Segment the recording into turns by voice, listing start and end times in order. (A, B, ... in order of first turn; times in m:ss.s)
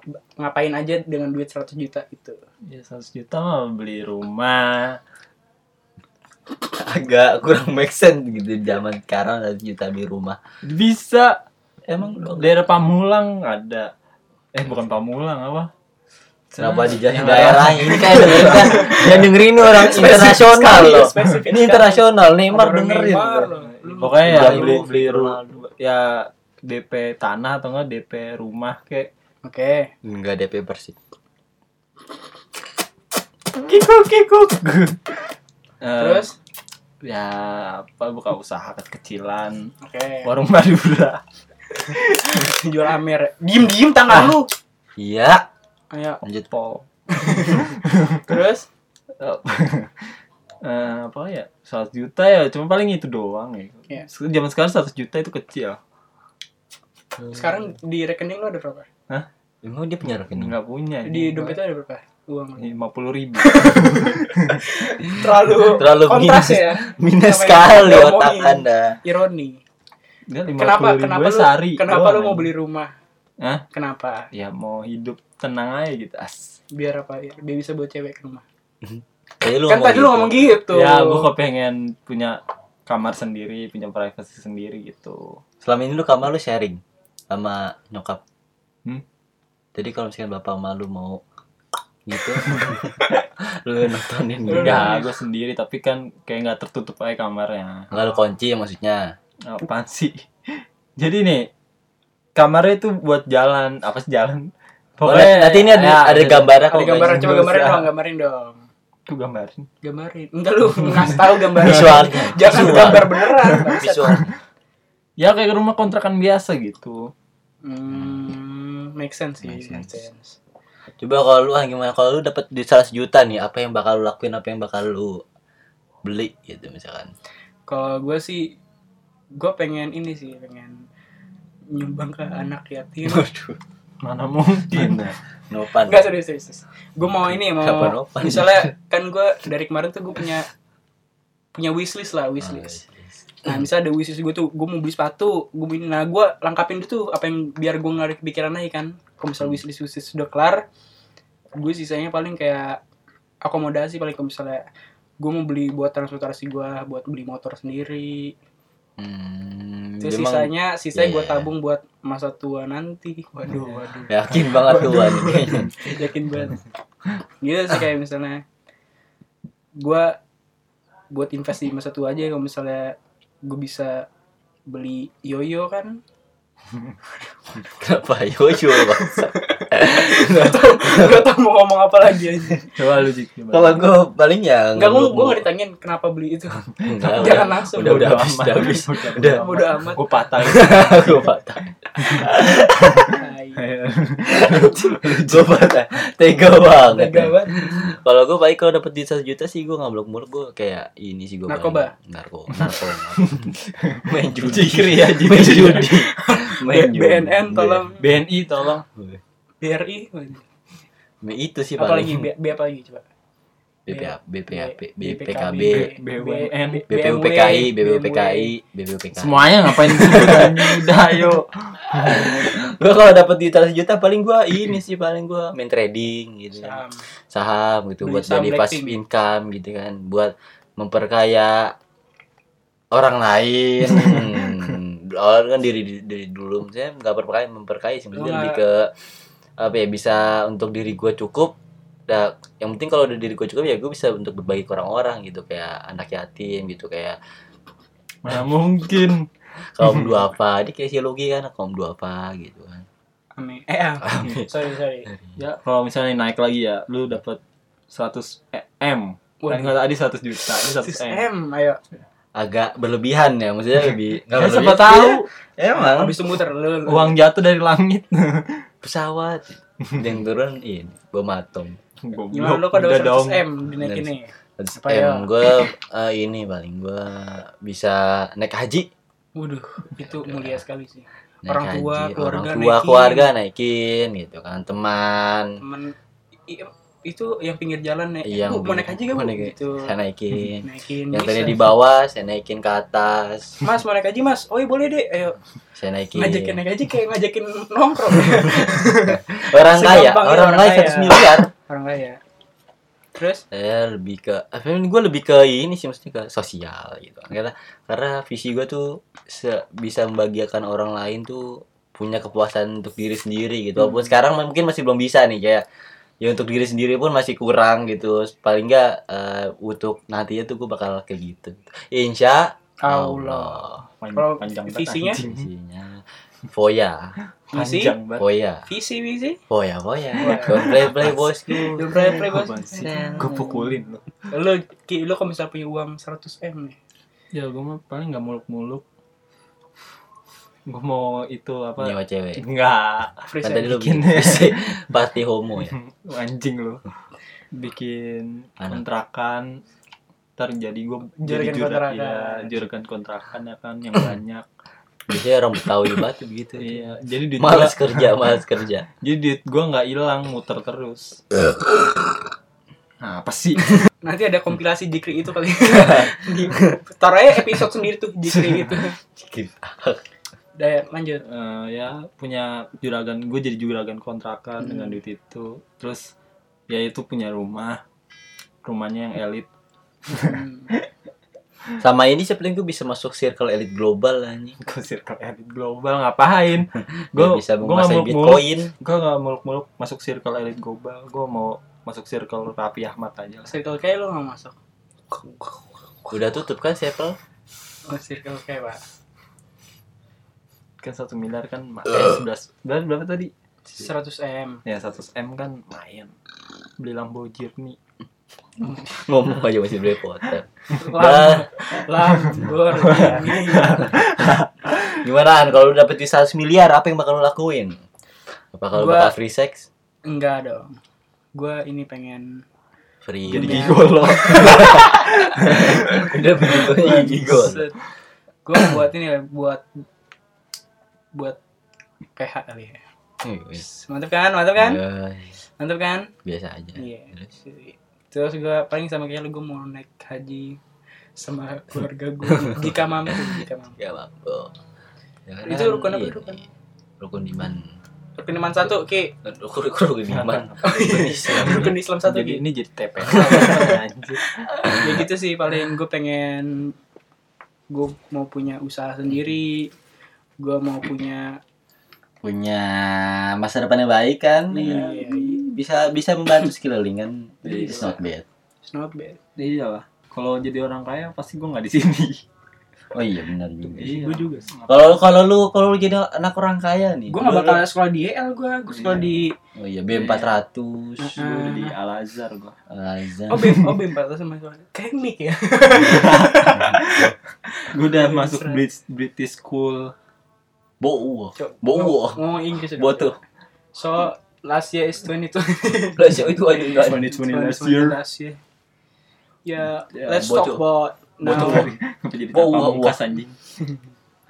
0:00.4-0:02.4 A
0:02.7-0:05.0 B
0:06.7-0:10.4 C
0:10.6-0:11.4 B
0:11.9-0:12.6 C
0:12.2-0:13.9 B
0:14.5-0:15.7 B
0:16.6-0:20.3 B
0:16.6-0:23.5 C
0:18.7-0:19.0 A
0:19.6-0:24.9 A
0:21.0-0:21.4 B
0:23.6-0:29.1 B
0:24.2-0:25.4 C
0:29.4-0:29.9 A
0:30.0-0:31.0 C
0:33.6-0:35.2 B
0:35.8-0:36.3 B
0:36.0-0:36.3 A
0:37.0-0:39.7 B
0:39.8-0:40.3 A
0:40.2-0:41.2 B
0:41.8-0:42.5 B
0:41.9-0:44.5 A
0:45.0-0:45.4 C
0:45.9-0:46.2 A
0:46.3-0:48.3 B
0:47.1-0:47.7 A
0:48.2-0:48.7 A
0:49.2-0:50.1 B
0:50.6-0:55.8 B
0:57.3-0:58.9 A
0:59.6-1:00.5 C
1:00.3-1:01.6 B
1:01.0-1:02.7 A
1:02.6-1:04.6 B
1:03.4-1:09.6 A
1:05.7-1:09.0 C
1:10.3-1:12.5 B
1:10.6-1:12.9 A
1:13.4-1:13.6 B
1:13.7-1:14.3 A
1:14.3-1:16.5 B
1:16.7-1:18.4 A
1:18.8-1:20.5 C
1:19.7-1:21.3 A
1:20.7-1:25.4 B
1:25.6-1:28.2 C
1:29.8-1:31.2 C
1:32.1-1:35.0 C
1:32.5-1:32.8 B
1:34.5-1:35.1 A
1:34.5-1:37.9 B
1:37.9-1:39.2 C
1:39.5-1:41.5 B
1:42.4-1:47.9 B
1:45.0-1:47.4 C
1:46.7-1:48.6 A
1:49.1-1:49.7 B
1:49.8-1:54.2 A
1:50.7-1:54.2 B
1:51.6-1:54.4 C
1:55.2-1:57.1 B
1:57.6-2:00.4 A
1:57.9-1:58.3 C
1:59.4-1:59.9 C
2:01.0-2:05.2 C
2:06.0-2:07.1 C
2:07.7-2:08.6 A
2:09.4-2:10.8 A
2:11.7-2:13.3 A
2:13.0-2:13.6 C
2:14.0-2:15.2 B
2:14.7-2:16.1 C
2:15.8-2:20.5 A
2:17.2-2:18.7 C
2:21.5-2:22.8 A
2:22.4-2:23.5 C
2:23.4-2:30.6 A
2:31.6-2:32.8 A
2:33.4-2:34.6 A
2:35.2-2:38.3 A
2:39.0-2:41.5 C
2:40.0-2:46.6 A
2:43.5-2:43.8 B
2:44.1-2:45.8 C
2:47.4-2:48.4 A
2:49.8-2:50.2 A
2:51.1-2:54.1 A
2:54.7-2:56.0 A
2:57.6-3:01.3 C
2:58.7-3:02.7 A
3:02.7-3:03.8 B
3:03.5-3:05.5 C
3:04.8-3:08.2 A
3:06.8-3:11.3 B
3:06.8-3:09.5 C
3:09.3-3:10.0 A
3:10.4-3:13.2 C
3:12.0-3:12.3 B
3:12.9-3:15.5 B
3:13.1-3:13.6 A
3:14.2-3:27.9 C
3:16.9-3:17.9 A
3:21.5-3:21.9 A
3:22.5-3:26.0 B
3:25.8-3:28.1 A
3:28.0-3:28.8 B
3:29.0-3:29.2 C
3:29.6-3:30.4 A
3:31.2-3:32.3 C
3:31.8-3:33.0 A
3:33.9-3:35.9 C
3:33.9-3:38.5 A
3:35.7-3:36.8 B
3:36.9-3:41.4 C
3:39.2-3:42.5 B
3:41.9-3:51.7 C
3:46.5-3:47.1 A
3:48.0-3:49.0 A
3:52.9-3:58.9 C
3:58.1-3:58.6 A
3:59.6-4:01.6 C
4:02.1-4:07.2 C
4:08.2-4:09.3 B
4:09.8-4:12.9 C
4:09.8-4:10.1 B
4:13.4-4:15.1 A
4:14.0-4:14.5 C
4:15.4-4:21.3 B
4:19.4-4:19.8 A
4:20.8-4:21.8 A
4:22.4-4:26.2 C
4:24.3-4:25.2 B
4:25.8-4:27.2 A
4:26.9-4:28.6 B
4:28.8-4:31.8 C
4:29.8-4:30.1 B
4:32.0-4:33.5 B
4:32.3-4:35.3 A
4:33.8-4:38.9 C
4:39.4-4:43.3 A
4:40.1-4:40.6 C
4:41.4-4:45.6 C
4:45.6-4:45.9 A
4:46.5-4:49.9 A
4:48.2-4:53.6 C
4:50.6-4:51.7 A
4:53.6-4:55.4 A
4:55.8-4:56.6 C
4:56.2-5:02.2 A
4:58.3-5:01.5 C
5:03.2-5:03.4 A
5:03.5-5:15.6 C
5:16.2-5:23.8 C
5:22.8-5:25.2 A
5:24.0-5:25.5 B
5:25.2-5:27.2 C
5:27.5-5:27.9 A
5:27.5-5:28.2 B
5:28.2-5:28.7 C
5:28.7-5:29.4 A
5:29.5-5:32.2 C
5:30.2-5:30.7 A
5:30.2-5:34.0 B
5:31.7-5:33.3 A
5:32.8-5:33.6 C
5:34.3-5:36.8 A
5:37.3-5:38.8 B
5:40.7-5:44.8 B
5:41.8-5:42.4 C
5:43.3-5:43.8 A
5:43.4-5:45.7 C
5:45.6-5:46.8 B
5:47.5-5:49.6 B
5:50.4-5:54.5 B
5:51.2-5:52.6 A
5:55.1-5:56.8 C
5:56.6-5:58.2 B
5:57.4-5:58.9 C
5:59.0-6:01.2 B
6:03.0-6:03.9 B
6:04.0-6:09.0 A
6:05.7-6:06.2 C
6:08.3-6:10.0 C
6:10.6-6:11.2 A
6:11.2-6:16.1 B
6:14.6-6:15.0 A
6:16.7-6:17.8 B
6:18.6-6:19.5 B
6:20.1-6:20.8 B
6:20.1-6:20.7 A
6:21.8-6:24.6 C
6:24.6-6:33.5 B
6:27.1-6:28.7 C
6:33.5-6:34.6 A
6:35.1-6:35.5 A
6:36.1-6:37.2 C
6:37.9-6:38.8 A
6:40.8-6:43.3 B
6:43.7-6:44.6 A
6:44.7-6:46.1 B
6:46.8-6:47.8 B
6:48.6-6:48.9 A
6:48.9-6:51.5 C
6:50.7-6:53.9 A
6:52.8-6:55.0 B
6:55.0-6:57.8 C
6:58.5-6:59.7 C
6:58.7-6:59.1 A
7:00.0-7:00.8 A
7:01.4-7:02.4 A
7:03.0-7:07.6 C
7:03.3-7:07.6 B
7:03.3-7:04.8 A
7:06.9-7:07.7 A
7:08.4-7:09.6 A
7:12.2-7:12.8 A
7:13.2-7:13.6 C
7:13.6-7:14.8 A
7:14.6-7:15.3 C
7:15.6-7:16.1 A
7:16.2-7:17.3 C
7:16.8-7:20.6 A
7:21.2-7:23.8 A
7:23.8-7:24.5 C
7:25.2-7:26.4 C
7:25.4-7:26.4 A
7:27.0-7:27.7 C
7:28.2-7:29.1 A
7:29.2-7:31.7 C
7:30.1-7:34.5 B
7:30.6-7:32.4 A
7:33.1-7:33.6 C
7:33.1-7:33.8 A
7:34.4-7:36.7 A
7:34.7-7:35.0 C
7:37.7-7:39.7 A
7:40.4-7:41.4 A
7:42.2-7:48.2 C
7:44.5-7:45.4 A
7:47.5-7:48.0 B
7:47.5-7:47.9 A
7:48.6-7:49.2 A
7:49.4-7:52.2 B
7:52.9-7:54.0 C
7:53.8-7:55.0 B
7:53.8-7:54.5 A
7:54.7-7:57.6 C
7:57.1-7:59.3 A
7:58.7-7:59.1 B
7:59.6-8:01.2 C
7:59.9-8:00.4 B
8:01.0-8:01.7 A
8:01.2-8:02.6 B
8:02.7-8:03.6 C
8:03.3-8:06.8 A
8:05.8-8:07.1 B
8:07.6-8:08.6 A
8:07.7-8:09.9 B
8:10.8-8:12.2 C
8:11.4-8:13.1 A
8:12.8-8:13.2 C
8:13.8-8:16.3 A
8:16.0-8:17.0 C
8:16.7-8:18.0 B
8:16.8-8:18.4 A
8:19.5-8:21.7 A
8:19.9-8:20.6 B
8:20.2-8:20.6 C
8:21.2-8:23.4 B
8:21.3-8:21.7 C
8:22.3-8:23.0 C